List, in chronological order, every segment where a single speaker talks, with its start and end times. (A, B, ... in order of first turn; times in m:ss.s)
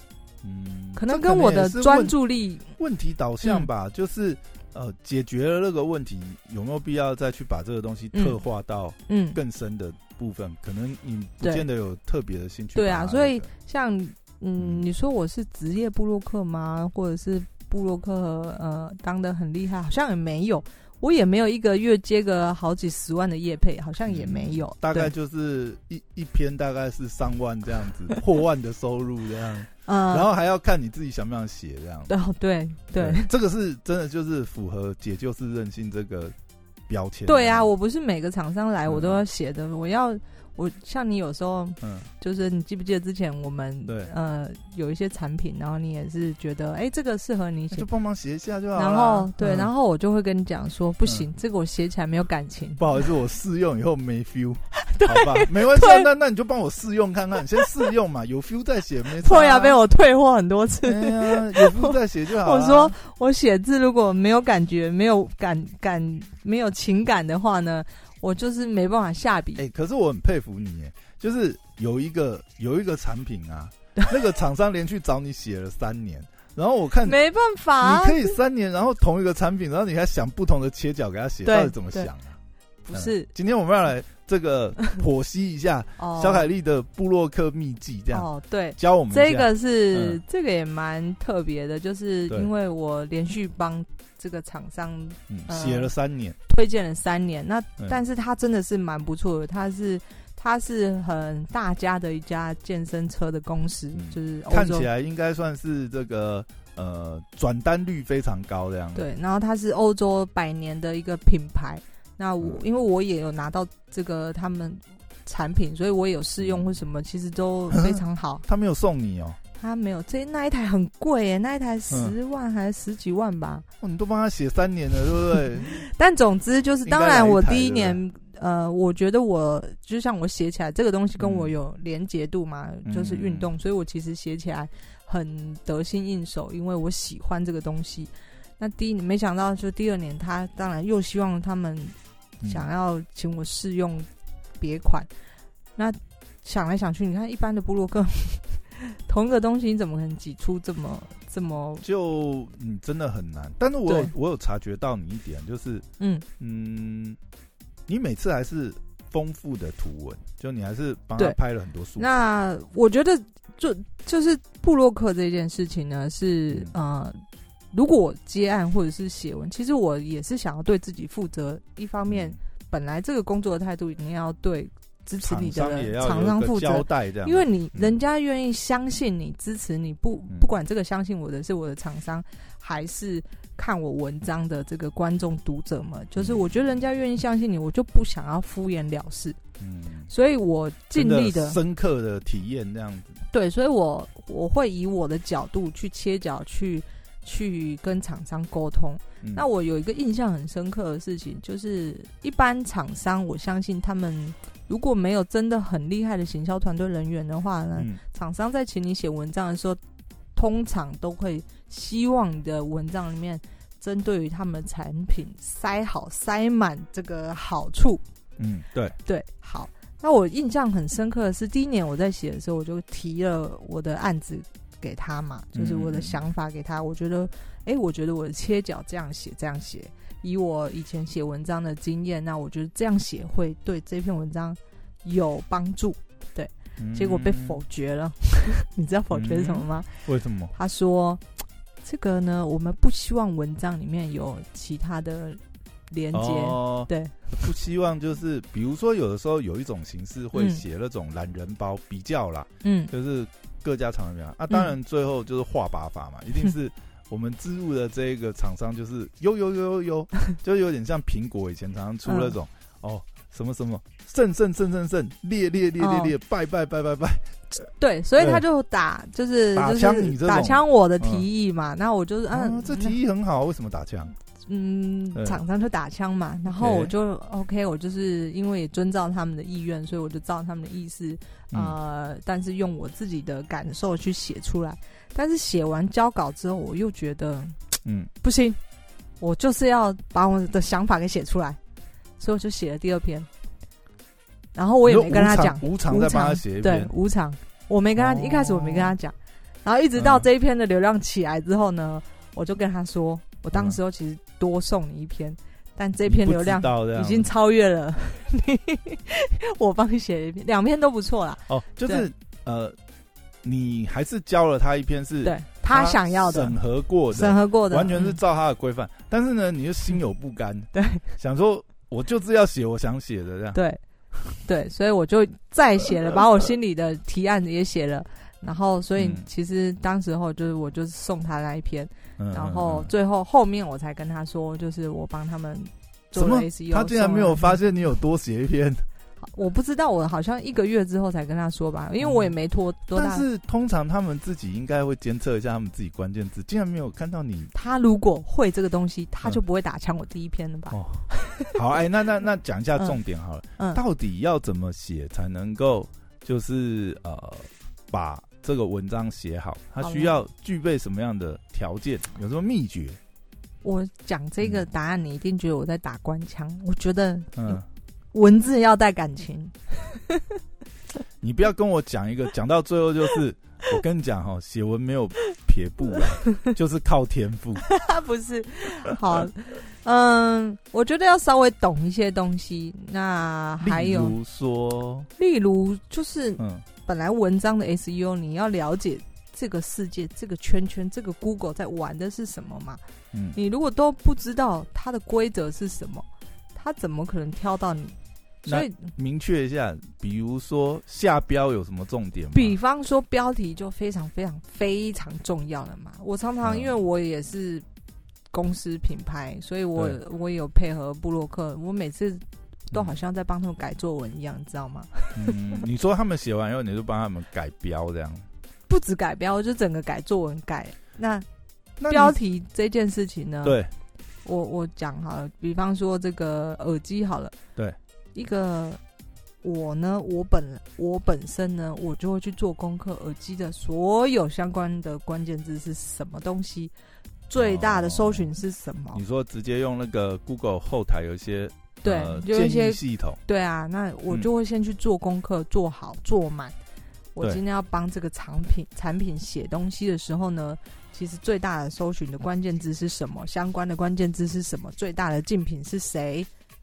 0:00.4-0:02.2 A
0:01.0-0:02.8 B
0:02.8-0:13.5 A
0:09.1-0:09.4 B
0:12.8-0:25.1 B
0:14.6-0:14.8 A
0:24.1-0:32.1 A
0:29.9-0:30.3 B
0:32.1-0:33.3 B
0:32.9-0:36.4 A
0:36.9-0:37.7 A
0:37.3-0:47.9 B
0:38.9-0:39.2 A
0:41.8-0:42.1 A
0:43.9-0:44.1 A
0:47.7-0:49.7 A
0:48.8-0:52.8 B
0:52.8-0:59.8 A
0:54.8-0:56.1 B
0:59.2-1:09.6 B
1:00.8-1:03.0 A
1:09.6-1:17.2 A
1:17.0-1:18.4 B
1:17.8-1:22.4 A
1:21.4-1:22.1 B
1:22.8-1:23.3 B
1:22.9-1:30.2 A
1:26.0-1:26.5 B
1:28.1-1:35.9 B
1:35.3-1:36.4 A
1:36.5-1:44.9 B
1:43.9-1:49.0 A
1:49.0-1:58.4 B
1:56.4-1:56.7 A
1:57.7-1:59.4 A
1:59.6-2:03.6 B
2:03.8-2:05.8 A
2:05.7-2:22.0 B
2:06.8-2:08.0 A
2:11.2-2:11.5 A
2:12.8-2:13.5 A
2:22.4-2:22.7 A
2:22.5-2:24.1 B
2:24.6-2:25.1 B
2:25.8-2:31.8 B
2:31.8-2:35.9 A
2:33.9-2:34.1 B
2:36.0-2:36.2 B
2:36.4-2:37.2 A
2:37.9-2:42.1 A
2:42.0-3:09.4 B
2:52.1-2:52.4 A
2:55.2-2:58.0 A
3:06.2-3:06.4 A
3:09.6-3:10.1 A
3:10.1-3:11.6 B
3:10.9-3:13.2 A
3:13.3-3:29.8 B
3:27.8-3:28.0 A
3:30.4-3:38.0 B
3:38.4-3:39.0 A
3:39.1-4:01.2 B
3:45.5-3:46.2 A
3:56.8-3:57.6 A
3:59.1-4:00.5 A
4:01.8-4:07.5 B
4:06.1-4:27.6 A
4:10.3-4:10.6 B
4:12.6-4:12.9 B
4:22.0-4:22.4 B
4:25.8-4:26.1 B
4:27.8-4:33.0 B
4:29.6-4:31.3 A
4:32.3-4:34.2 A
4:34.4-4:47.6 B
4:35.2-4:35.4 A
4:36.5-4:36.9 A
4:47.8-4:48.1 A
4:48.2-4:48.6 B
4:49.2-4:51.6 B
4:52.2-4:53.3 B
4:54.6-5:12.1 B
4:54.8-4:56.9 A
4:58.0-4:59.0 A
5:00.0-5:00.3 A
5:06.0-5:07.3 A
5:11.5-5:12.8 A
5:13.4-5:23.6 A
5:15.2-5:16.6 B
5:17.1-5:18.2 B
5:20.7-5:21.0 B
5:23.5-5:23.8 B
5:24.4-5:37.6 B
5:29.0-5:29.2 A
5:32.2-5:32.9 A
5:36.2-5:38.8 A
5:39.2-5:43.2 B
5:42.0-5:42.4 A
5:42.9-5:47.5 A
5:47.5-5:51.5 B
5:50.7-6:03.0 A
5:59.8-6:00.2 B
6:03.6-6:07.6 B
6:07.4-6:07.6 A
6:08.1-6:10.2 B
6:11.2-6:17.7 A
6:17.7-6:24.2 B
6:23.6-6:25.1 A
6:25.2-6:32.8 B
6:26.4-6:26.7 A
6:33.1-6:33.4 A
6:33.4-6:38.0 B
6:38.4-6:42.6 A
6:38.5-6:38.9 B
6:42.3-6:47.6 B
6:46.4-6:46.7 A
6:48.3-6:55.6 B
6:55.2-6:58.3 A
6:58.7-7:01.3 B
7:01.8-7:02.2 A
7:01.9-7:03.6 B
7:03.4-7:03.7 A
7:04.2-7:07.4 B
7:08.2-7:08.8 B
7:09.4-7:16.7 B
7:17.3-7:19.0 B
7:17.4-7:18.3 A
7:18.9-7:23.2 A
7:21.8-7:26.6 B
7:27.2-7:36.3 B